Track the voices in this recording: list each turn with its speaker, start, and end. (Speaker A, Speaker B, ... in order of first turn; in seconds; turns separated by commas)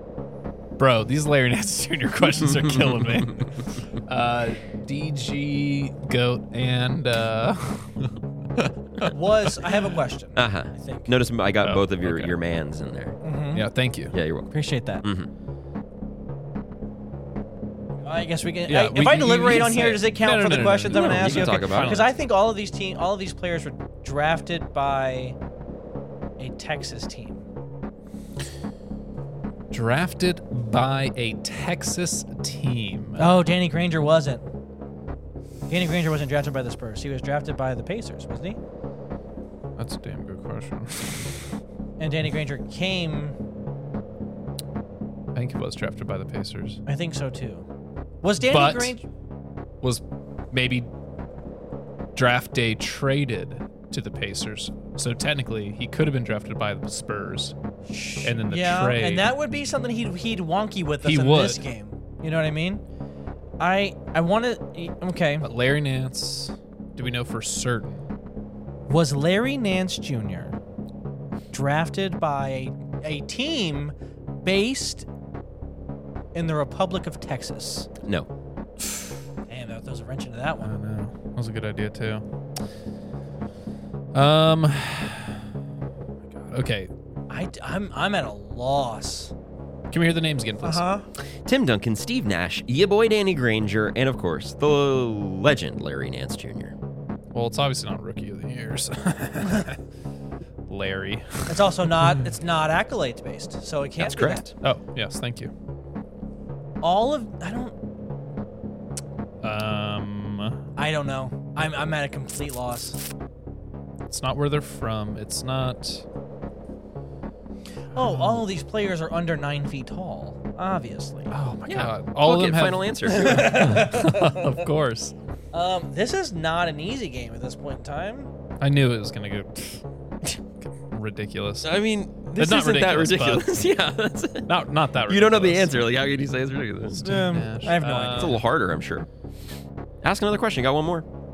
Speaker A: 0.8-9.1, Speaker B: 2.5-3.5, Speaker C: 9.1-11.1, Speaker B: 10.3-13.2, Speaker A: 11.6-12.3, Speaker C: 13.2-13.6, Speaker A: 13.5-14.1, Speaker B: 14.1-15.3, Speaker C: 14.5-15.0, Speaker C: 18.0-25.4, Speaker A: 18.7-22.1, Speaker B: 20.9-22.0, Speaker C: 26.4-27.4, Speaker A: 29.7-33.3, Speaker C: 33.2-34.4, Speaker C: 35.7-38.6, Speaker A: 39.8-41.4, Speaker C: 42.0-43.4, Speaker A: 45.3-46.8, Speaker C: 46.9-47.6, Speaker C: 48.2-49.0, Speaker A: 48.4-49.0, Speaker A: 49.8-50.9, Speaker A: 52.1-57.5, Speaker C: 57.9-62.8, Speaker A: 58.2-59.3, Speaker A: 61.0-61.6, Speaker C: 63.6-65.5, Speaker A: 65.4-68.0, Speaker C: 68.9-70.6, Speaker C: 71.5-75.0, Speaker C: 76.3-77.9, Speaker C: 79.5-80.8, Speaker A: 80.6-82.2, Speaker A: 84.1-85.4, Speaker A: 86.5-86.9, Speaker C: 87.3-89.3, Speaker A: 89.9-90.8, Speaker C: 90.6-91.0, Speaker B: 91.4-96.7, Speaker A: 97.3-99.8, Speaker A: 100.7-102.2, Speaker C: 101.5-104.5, Speaker B: 104.0-104.5, Speaker A: 104.6-105.5, Speaker C: 106.8-107.7, Speaker A: 109.4-110.6, Speaker C: 110.8-113.0, Speaker A: 114.1-116.0, Speaker C: 117.9-121.3, Speaker A: 118.0-118.4, Speaker A: 121.3-125.1, Speaker B: 121.7-123.8, Speaker C: 123.1-124.5, Speaker C: 125.5-128.3, Speaker A: 128.6-131.7, Speaker B: 131.6-134.5, Speaker A: 132.3-133.7, Speaker A: 134.5-135.9, Speaker B: 135.1-137.0, Speaker A: 136.9-138.4, Speaker C: 137.0-138.3, Speaker B: 138.2-139.1, Speaker B: 140.0-141.0